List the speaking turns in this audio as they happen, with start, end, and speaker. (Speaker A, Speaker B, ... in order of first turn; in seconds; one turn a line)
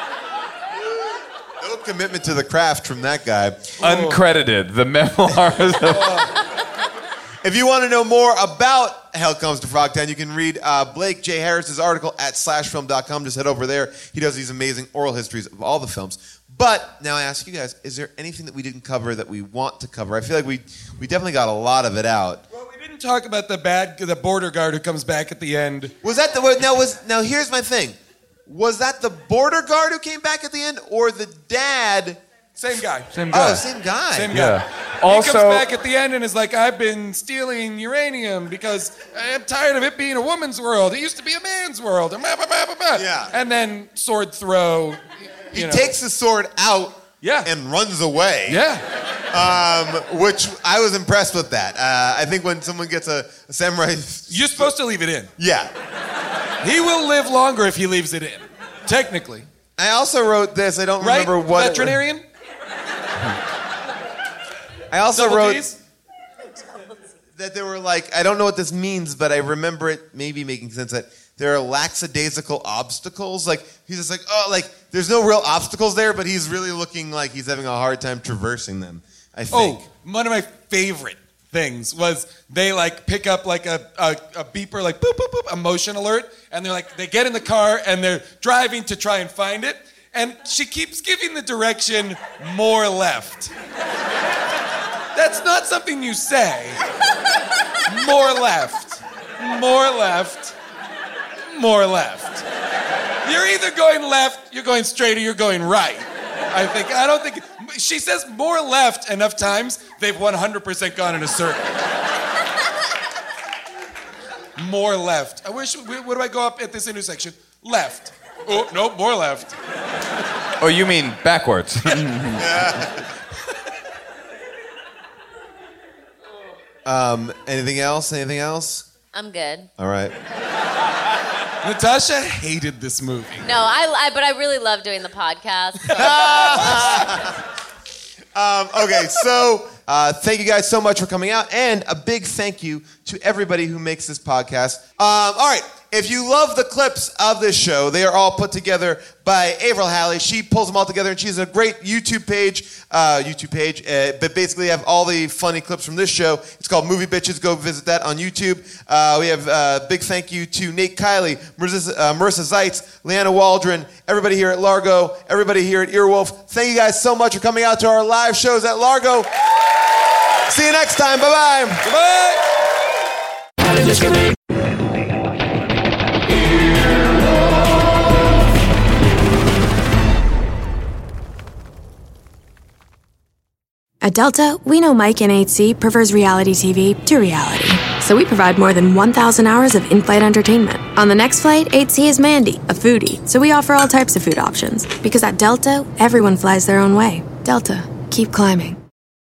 Speaker A: 1.6-3.8
Speaker B: 3.8-4.2
Speaker C: 3.8-6.2
Speaker B: 5.9-6.3
Speaker A: 7.4-22.4
Speaker B: 22.5-25.9
Speaker A: 26.0-32.2
Speaker B: 32.6-33.1
Speaker C: 33.1-33.6
Speaker A: 33.3-34.3
Speaker B: 34.1-45.0
Speaker C: 34.3-35.6
Speaker A: 42.9-43.3
Speaker B: 45.5-45.9
Speaker A: 45.5-48.6
Speaker B: 47.2-47.5
Speaker B: 48.5-48.8
Speaker A: 49.3-54.7
Speaker B: 54.3-55.3
Speaker A: 55.4-55.7
Speaker B: 56.6-59.5
Speaker A: 59.8-62.0
Speaker B: 61.0-62.2
Speaker A: 64.9-65.7
Speaker B: 65.1-65.7
Speaker A: 67.3-79.8
Speaker B: 79.5-93.5
Speaker B: 95.1-96.8
Speaker B: 97.9-100.5
Speaker B: 101.5-102.4
Speaker B: 103.2-111.6
Speaker B: 114.6-119.5
Speaker C: 120.6-122.8
Speaker A: 122.4-122.9
Speaker A: 126.8-128.8
Speaker D: 129.1-129.7
Speaker A: 129.8-130.1
Speaker B: 131.6-133.4
Speaker D: 133.4-137.0
Speaker A: 135.9-137.3
Speaker A: 138.3-169.3
Speaker A: 170.5-171.8
Speaker B: 171.8-172.4
Speaker E: 184.0-198.8